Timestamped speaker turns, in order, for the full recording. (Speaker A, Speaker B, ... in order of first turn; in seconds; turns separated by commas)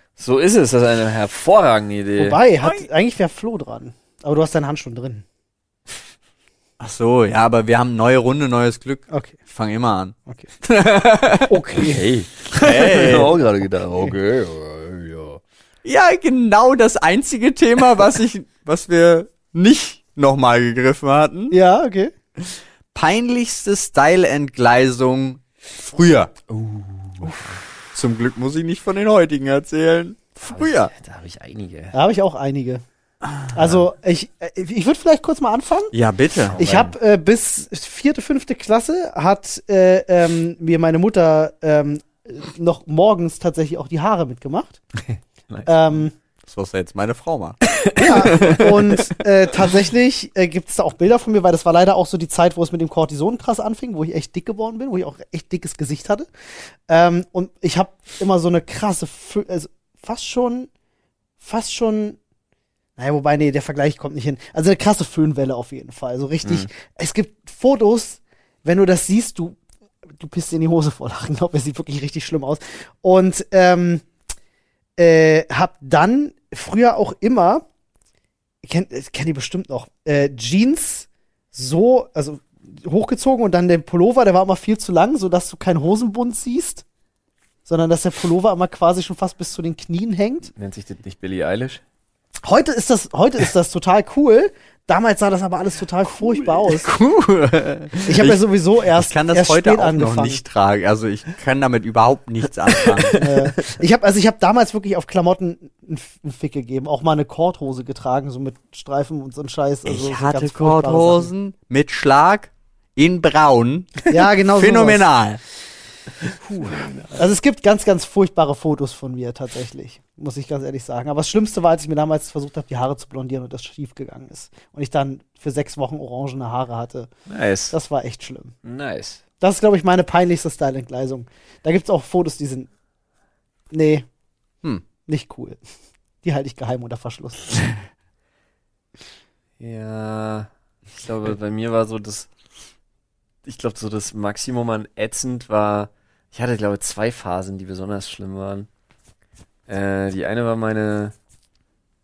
Speaker A: 0.2-2.4, Speaker B: 2.2-5.2, Speaker C: 6.8-11.5, Speaker B: 9.1-9.4, Speaker B: 11.5-12.1, Speaker A: 11.7-15.4, Speaker C: 12.5-13.3, Speaker C: 15.8-21.6, Speaker B: 21.5-22.1, Speaker C: 22.4-26.3, Speaker A: 26.5-27.6, Speaker C: 27.9-30.9, Speaker A: 30.4-31.9, Speaker B: 31.9-32.8, Speaker B: 33.5-35.9, Speaker C: 35.9-36.9, Speaker A: 36.5-36.9, Speaker B: 36.6-44.8, Speaker A: 45.0-45.7, Speaker B: 45.6-46.1, Speaker C: 46.4-49.1, Speaker A: 47.9-48.6, Speaker B: 48.0-56.3, Speaker B: 56.9-60.7, Speaker B: 61.4-62.2, Speaker B: 63.0-69.6, Speaker B: 70.2-74.0, Speaker B: 75.0-77.6, Speaker B: 78.6-86.8, Speaker B: 87.7-90.5, Speaker A: 90.5-91.8, Speaker B: 92.4-96.9, Speaker C: 96.3-98.4, Speaker B: 98.0-100.4, Speaker C: 98.9-103.1, Speaker A: 102.8-103.4, Speaker B: 103.1-111.3, Speaker C: 109.8-115.4, Speaker B: 114.1-115.0, Speaker B: 116.4-127.1, Speaker A: 116.7-117.1, Speaker A: 127.3-127.8, Speaker B: 127.7-128.6, Speaker A: 128.6-129.2, Speaker B: 129.4-132.7, Speaker B: 133.7-134.1, Speaker B: 135.1-135.6, Speaker B: 136.2-137.8, Speaker A: 139.6-142.3, Speaker A: 143.4-148.7, Speaker A: 149.7-151.1